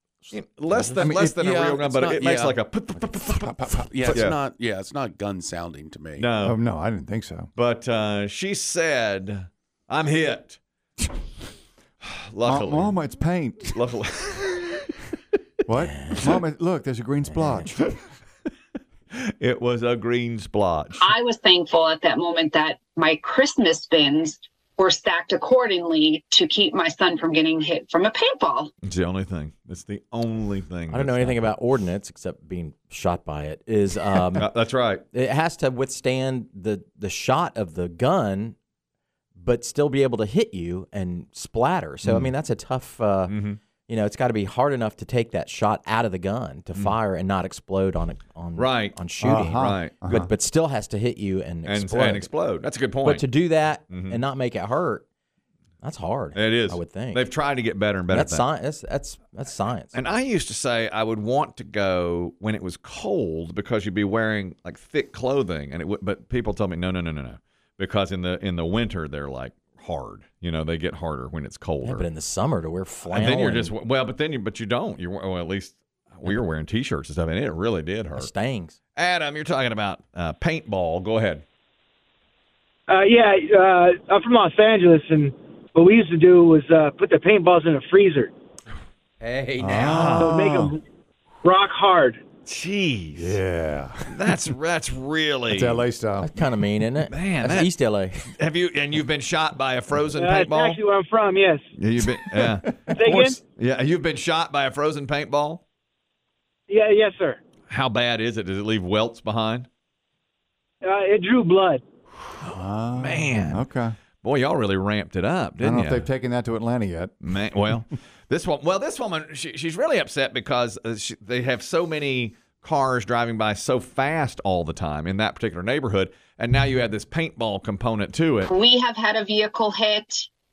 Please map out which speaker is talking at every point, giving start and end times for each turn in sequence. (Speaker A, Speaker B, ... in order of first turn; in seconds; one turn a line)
Speaker A: 0.3-4.4
Speaker B: 1.0-1.4
Speaker C: 1.1-2.6
Speaker C: 3.2-6.3
Speaker B: 3.7-4.2
Speaker A: 6.2-6.6
Speaker B: 6.4-7.5
Speaker A: 7.5-10.6
Speaker A: 12.0-13.0
Speaker B: 12.4-13.8
Speaker A: 13.7-14.8
Speaker B: 15.7-18.0
Speaker D: 15.8-16.4
Speaker D: 17.3-17.7
Speaker A: 19.1-21.1
Speaker E: 21.0-28.7
Speaker A: 28.8-31.5
Speaker D: 30.9-34.5
Speaker A: 34.4-35.0
Speaker D: 35.1-38.5
Speaker D: 39.4-43.4
Speaker A: 42.0-42.3
Speaker A: 43.3-43.6
Speaker D: 43.9-52.3
Speaker A: 48.6-49.0
Speaker B: 49.2-50.3
Speaker A: 49.6-50.0
Speaker A: 51.6-53.3
Speaker D: 53.0-55.0
Speaker A: 53.9-54.2
Speaker D: 55.8-57.3
Speaker A: 56.4-58.5
Speaker D: 58.1-60.0
Speaker A: 59.9-72.1
Speaker D: 71.8-73.7
Speaker A: 73.1-78.3
Speaker D: 78.2-78.8
Speaker A: 79.0-81.4
Speaker F: 82.9-88.3
Speaker D: 89.2-90.0
Speaker B: 89.6-90.8
Speaker A: 89.9-90.4
Speaker F: 90.1-90.8
Speaker F: 91.4-92.2
Speaker A: 92.5-93.4
Speaker B: 93.2-94.5
Speaker A: 94.1-95.8
Speaker B: 95.5-96.4
Speaker D: 96.2-98.3
Speaker A: 97.1-97.7
Speaker A: 98.3-100.8
Speaker F: 100.2-101.7
Speaker A: 101.8-105.6
Speaker F: 102.9-103.4
Speaker F: 106.7-107.4
Speaker A: 107.7-109.7
Speaker F: 110.8-111.8
Speaker B: 112.4-114.0
Speaker A: 112.9-113.7
Speaker A: 114.2-116.1
Speaker B: 115.6-117.2
Speaker A: 117.2-128.5
Speaker E: 128.5-130.3